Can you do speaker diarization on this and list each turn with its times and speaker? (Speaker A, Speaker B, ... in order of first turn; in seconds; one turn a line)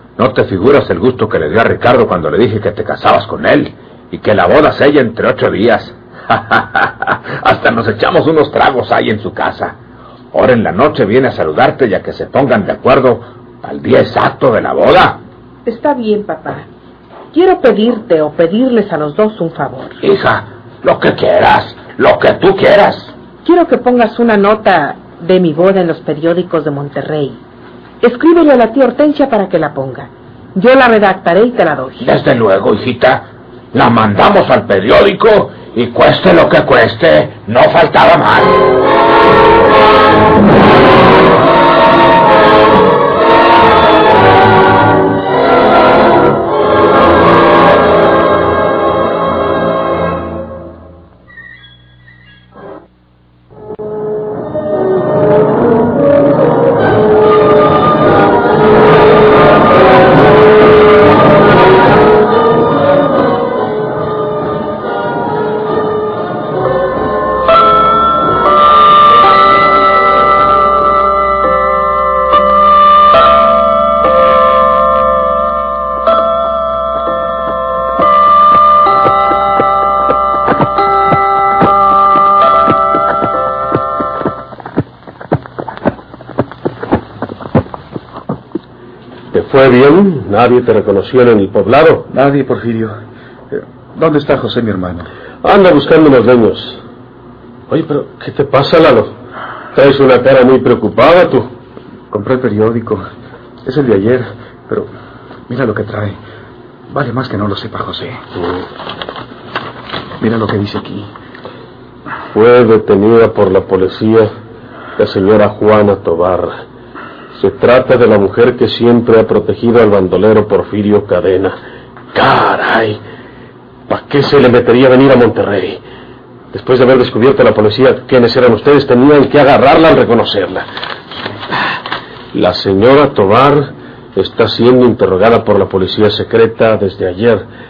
Speaker A: 0.2-9.8
Speaker A: 10.3-15.2
Speaker B: 15.7-16.7
Speaker B: 17.3-20.0
Speaker A: 20.0-23.1
Speaker B: 23.4-27.4
Speaker B: 28.0-32.0
Speaker A: 32.0-38.6
Speaker C: 89.3-92.0
Speaker D: 92.1-92.9
Speaker D: 93.5-95.1
Speaker C: 95.4-96.8
Speaker C: 97.7-99.1
Speaker C: 99.7-101.5
Speaker D: 102.1-103.0
Speaker D: 103.6-104.9
Speaker D: 105.5-106.2
Speaker D: 106.9-108.2
Speaker D: 110.2-111.1
Speaker C: 112.3-114.3
Speaker C: 115.0-116.5
Speaker C: 117.3-121.5
Speaker C: 122.1-123.0
Speaker C: 123.9-125.8
Speaker C: 126.5-130.6
Speaker C: 132.3-137.4